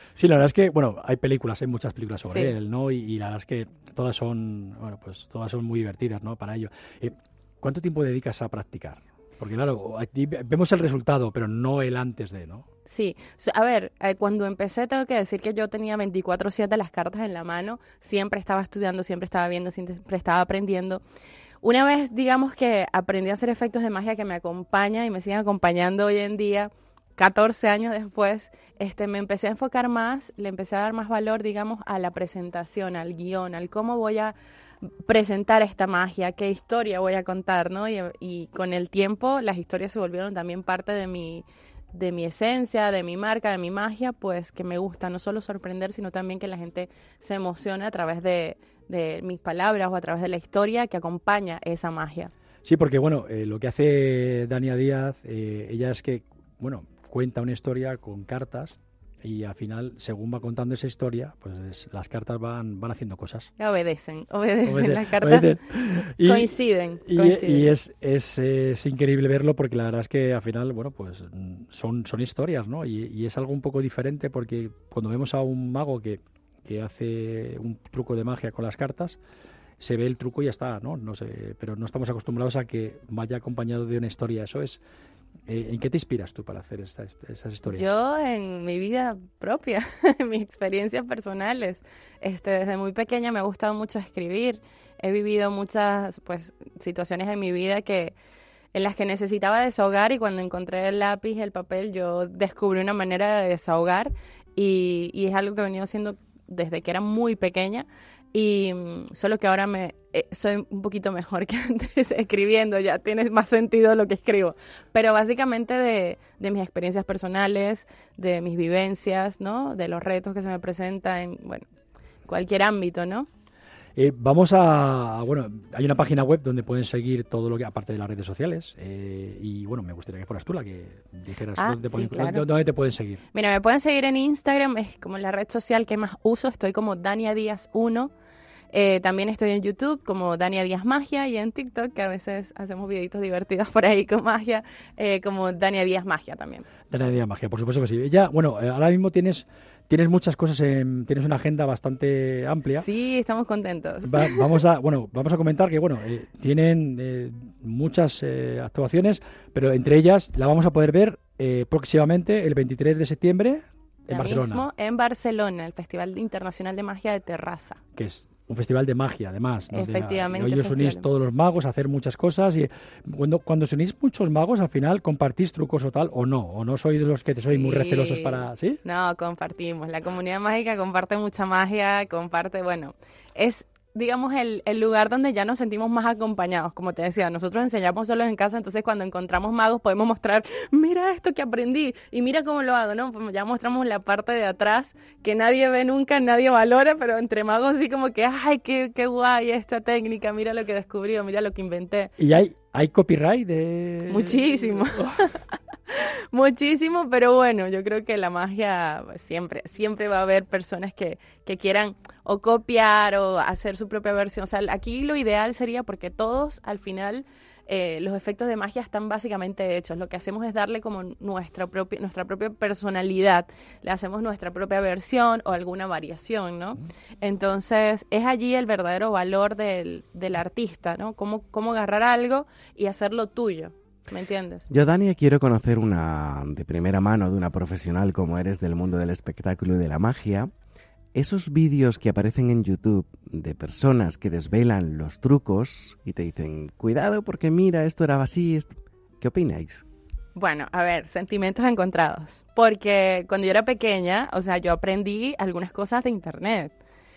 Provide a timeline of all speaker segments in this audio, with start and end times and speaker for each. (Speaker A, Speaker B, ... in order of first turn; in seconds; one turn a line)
Speaker A: 0.2-12.7
Speaker B: 12.9-21.0
Speaker B: 21.6-34.4
Speaker B: 35.0-52.3
Speaker A: 52.6-63.5
Speaker B: 63.6-65.6
Speaker A: 64.7-66.5
Speaker B: 66.2-67.7
Speaker A: 67.0-79.2
Speaker A: 79.8-84.8
Speaker A: 85.5-87.9
Speaker B: 87.7-98.1
Speaker B: 98.7-121.7
Speaker B: 122.3-123.3
Speaker A: 124.0-133.2
Speaker B: 131.6-132.4
Speaker B: 133.3-138.1
Speaker B: 138.7-146.7
Speaker A: 146.9-152.9
Speaker B: 152.7-154.4
Speaker A: 154.0-164.7
Speaker B: 164.1-167.8
Speaker A: 168.0-178.8
Speaker B: 169.7-171.1
Speaker B: 177.4-202.1
Speaker A: 202.2-205.2
Speaker B: 204.1-234.7
Speaker C: 234.7-240.5
Speaker C: 241.1-249.8
Speaker B: 250.3-256.7